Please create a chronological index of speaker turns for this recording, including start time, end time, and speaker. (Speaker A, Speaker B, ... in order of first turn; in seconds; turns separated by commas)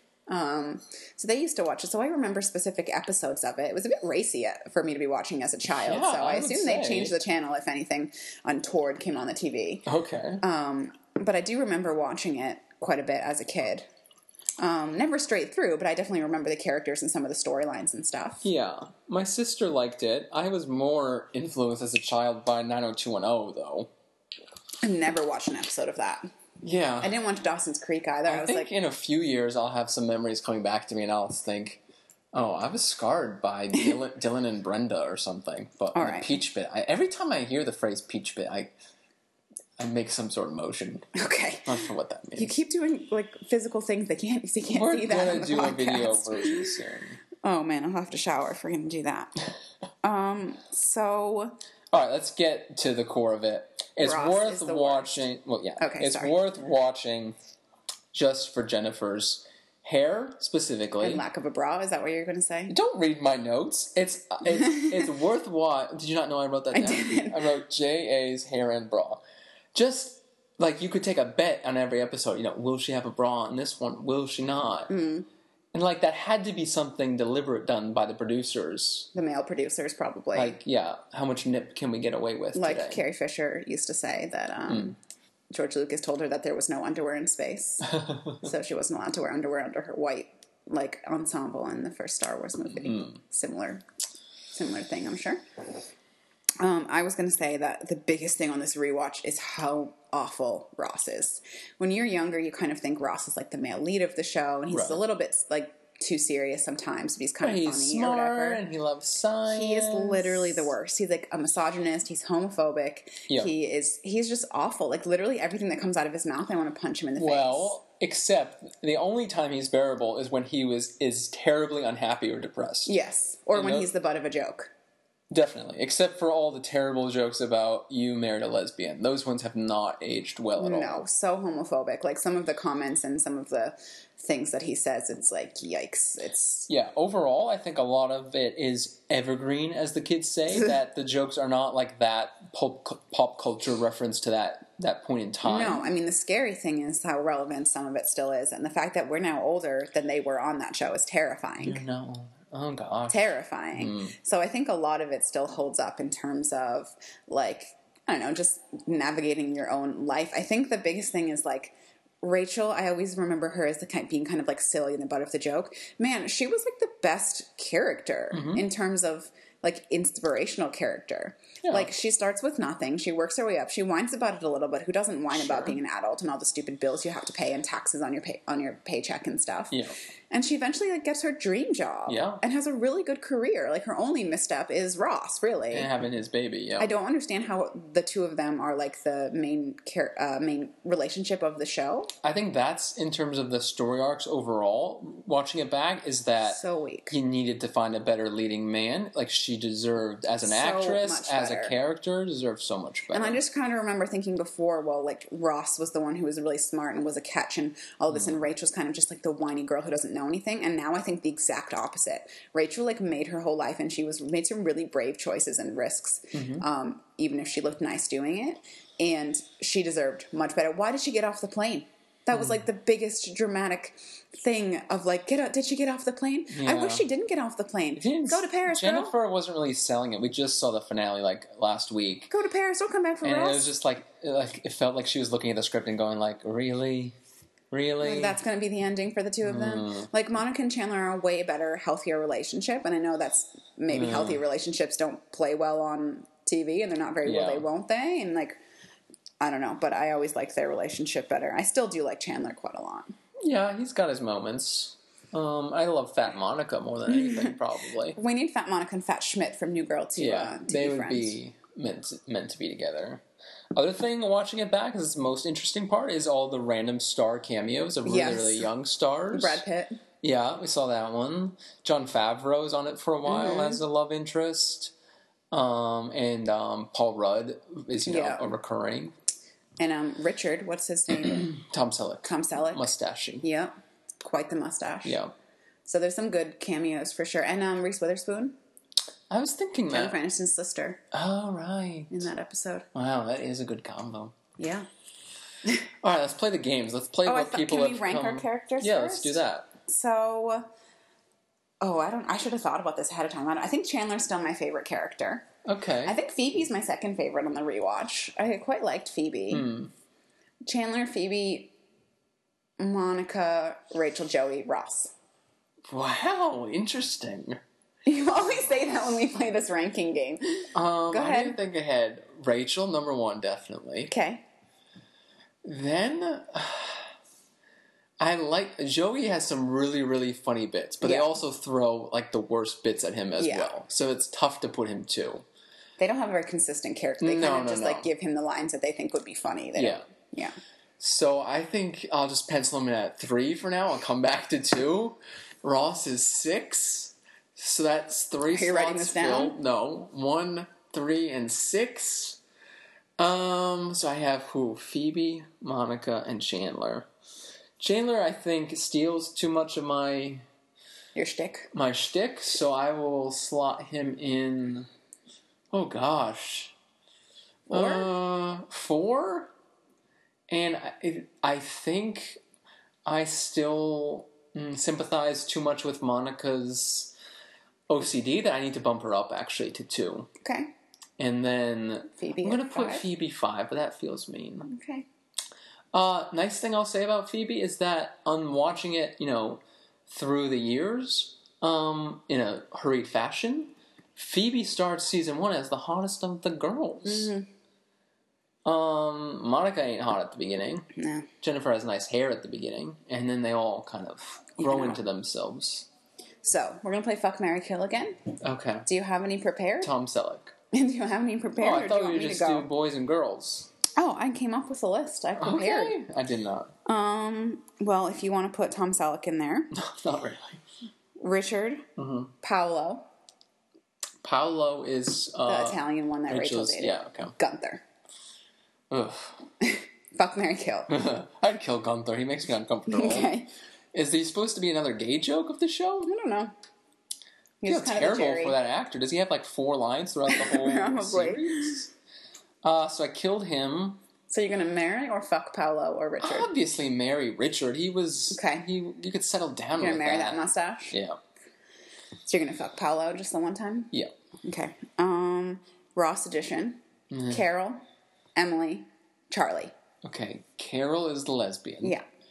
Speaker A: 0.3-9.8, Speaker B: 5.7-7.2, Speaker B: 9.8-10.4, Speaker A: 10.4-13.9, Speaker A: 14.6-18.4, Speaker B: 18.4-23.9, Speaker A: 24.8-26.3, Speaker B: 26.6-27.1, Speaker A: 27.0-28.7, Speaker B: 28.2-31.8, Speaker B: 32.3-38.7, Speaker A: 35.9-36.4, Speaker B: 39.8-41.1, Speaker A: 41.1-46.8, Speaker B: 41.6-42.6, Speaker B: 44.7-47.2, Speaker A: 47.4-49.4, Speaker A: 50.0-51.6, Speaker B: 51.9-57.4, Speaker A: 54.0-55.3, Speaker A: 55.8-56.4, Speaker B: 58.1-61.2, Speaker A: 61.0-62.8, Speaker B: 62.7-69.2, Speaker A: 66.7-67.4, Speaker B: 69.7-74.9, Speaker A: 74.9-75.3, Speaker B: 75.7-79.1, Speaker A: 79.1-80.6, Speaker B: 80.3-83.0, Speaker A: 82.5-85.0, Speaker A: 85.5-93.8, Speaker B: 88.0-88.3, Speaker B: 92.8-93.1, Speaker A: 94.5-95.4, Speaker A: 96.6-108.6, Speaker B: 104.7-105.0, Speaker B: 107.4-110.7, Speaker A: 109.5-117.7, Speaker B: 117.2-122.9, Speaker A: 122.8-124.7, Speaker B: 123.5-123.9, Speaker B: 125.3-131.0, Speaker A: 130.6-136.7, Speaker B: 136.7-145.9, Speaker A: 145.4-151.8, Speaker B: 151.6-154.1, Speaker A: 153.1-179.8, Speaker B: 168.3-168.6, Speaker B: 171.6-171.9, Speaker B: 175.3-175.8, Speaker A: 180.3-185.9, Speaker B: 182.1-182.4, Speaker B: 185.7-186.9, Speaker A: 186.8-192.1, Speaker B: 192.2-203.4, Speaker A: 196.4-197.1, Speaker A: 200.4-201.7, Speaker A: 203.1-229.1, Speaker B: 208.1-208.4, Speaker B: 216.3-216.6, Speaker B: 222.3-222.6, Speaker B: 226.5-227.1, Speaker B: 228.0-232.3, Speaker A: 232.3-233.7, Speaker B: 233.2-237.2, Speaker B: 237.7-238.4, Speaker A: 238.0-248.6, Speaker B: 239.4-240.1, Speaker B: 243.9-244.4, Speaker B: 247.2-247.7, Speaker A: 249.4-253.1, Speaker B: 253.4-258.2, Speaker A: 257.1-257.6, Speaker A: 258.1-261.4, Speaker B: 260.2-263.2, Speaker B: 263.7-269.6, Speaker A: 268.0-268.7, Speaker A: 269.3-270.0, Speaker B: 270.2-274.9, Speaker A: 273.2-273.8, Speaker B: 275.5-279.1, Speaker A: 278.0-278.5, Speaker A: 279.8-281.5, Speaker B: 281.1-283.4, Speaker A: 282.2-285.2, Speaker B: 285.0-285.3, Speaker A: 285.9-288.6, Speaker B: 289.3-290.2, Speaker A: 289.9-291.0, Speaker B: 291.1-292.3, Speaker A: 292.1-292.9, Speaker B: 292.9-294.3, Speaker A: 294.6-294.9, Speaker B: 296.0-299.7, Speaker A: 297.2-300.7, Speaker A: 301.8-305.5, Speaker B: 305.6-306.1, Speaker A: 306.0-309.7, Speaker B: 309.5-309.9, Speaker A: 310.6-311.7, Speaker A: 312.8-315.1, Speaker B: 315.9-317.6, Speaker A: 318.1-321.6, Speaker B: 320.7-324.1, Speaker A: 324.1-324.4, Speaker B: 325.6-327.1, Speaker B: 328.2-335.4, Speaker A: 331.0-331.3, Speaker A: 333.4-333.7, Speaker A: 336.0-340.6, Speaker B: 337.2-338.1, Speaker B: 339.8-340.0, Speaker B: 341.0-352.4, Speaker A: 348.5-349.6, Speaker B: 353.2-357.1, Speaker B: 357.8-360.4, Speaker A: 361.1-361.7, Speaker B: 361.7-364.9, Speaker B: 365.7-366.7, Speaker A: 367.7-368.1, Speaker B: 367.7-369.5, Speaker B: 370.5-372.4, Speaker B: 373.0-377.1, Speaker B: 377.9-380.3, Speaker A: 380.4-380.7, Speaker B: 381.2-384.7, Speaker A: 382.2-383.1, Speaker A: 384.6-385.1, Speaker B: 385.9-397.3, Speaker A: 397.0-397.5, Speaker B: 398.6-400.9, Speaker A: 400.9-401.3, Speaker B: 401.4-405.9, Speaker A: 404.6-405.0, Speaker A: 406.4-408.3, Speaker B: 408.4-408.9, Speaker A: 408.9-409.9, Speaker B: 409.8-410.5, Speaker A: 410.7-412.7, Speaker B: 411.6-413.7, Speaker A: 413.9-416.0, Speaker B: 415.4-416.7, Speaker A: 416.8-419.7, Speaker B: 419.7-420.6, Speaker A: 421.2-421.9, Speaker B: 422.0-422.3, Speaker A: 422.4-423.1, Speaker B: 424.2-427.3, Speaker A: 425.4-427.8, Speaker B: 428.9-429.4, Speaker A: 429.6-430.9, Speaker B: 430.9-433.3, Speaker A: 432.9-433.5, Speaker B: 433.9-436.1, Speaker A: 436.1-436.5, Speaker A: 437.6-438.6, Speaker B: 437.6-441.9, Speaker A: 440.3-441.8, Speaker B: 442.6-444.0, Speaker A: 444.3-446.5, Speaker B: 446.2-451.2, Speaker A: 448.3-448.7, Speaker A: 449.8-451.0, Speaker A: 452.3-453.9, Speaker A: 454.4-457.8, Speaker B: 457.1-457.4, Speaker A: 458.4-459.7, Speaker B: 460.0-461.9